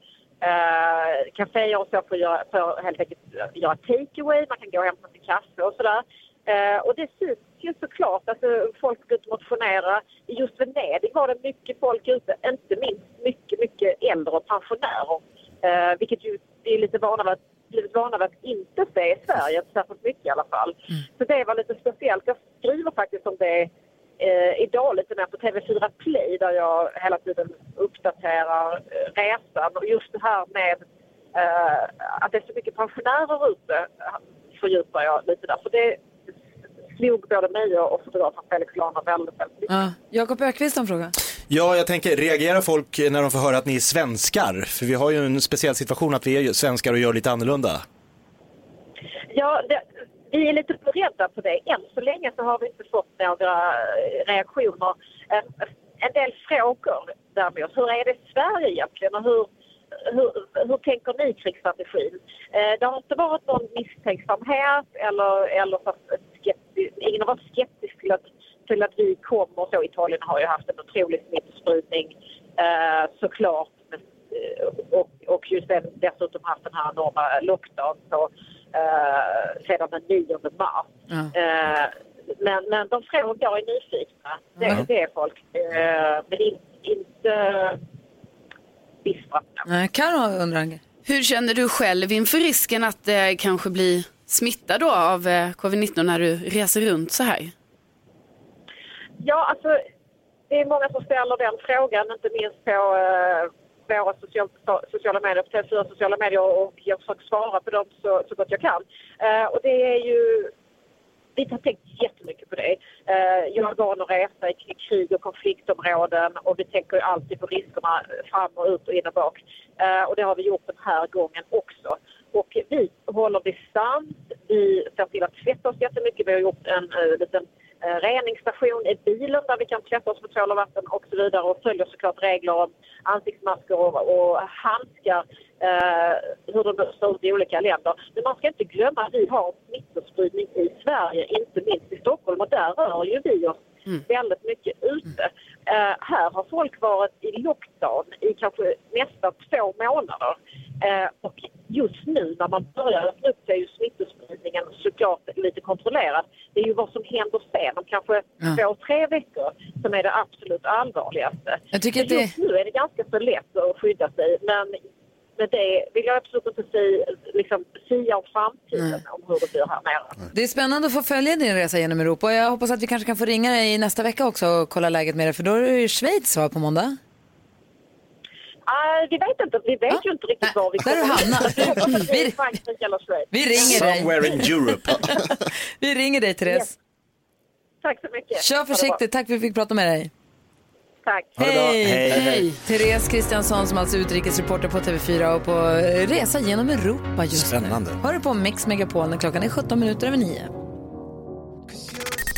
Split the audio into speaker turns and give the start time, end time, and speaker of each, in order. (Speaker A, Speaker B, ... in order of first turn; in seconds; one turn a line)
Speaker A: 0.4-36.0
Speaker A: 36.9-39.8
Speaker B: 39.7-41.1
Speaker C: 41.5-47.8
Speaker A: 49.3-59.5
Speaker A: 60.0-87.8
Speaker A: 89.0-89.6
Speaker B: 89.7-90.8
Speaker D: 91.0-97.5
Speaker A: 99.2-99.8
Speaker A: 100.5-110.5
Speaker A: 111.3-164.8
Speaker B: 161.7-162.3
Speaker A: 165.4-170.2
Speaker B: 170.3-177.0
Speaker A: 178.7-183.7
Speaker B: 180.8-182.3
Speaker B: 183.3-186.7
Speaker C: 183.6-185.0
Speaker A: 187.8-189.0
Speaker B: 188.4-190.1
Speaker A: 191.0-191.3
Speaker C: 191.4-192.6
Speaker B: 191.4-200.5
Speaker D: 192.1-192.5
Speaker C: 197.3-198.0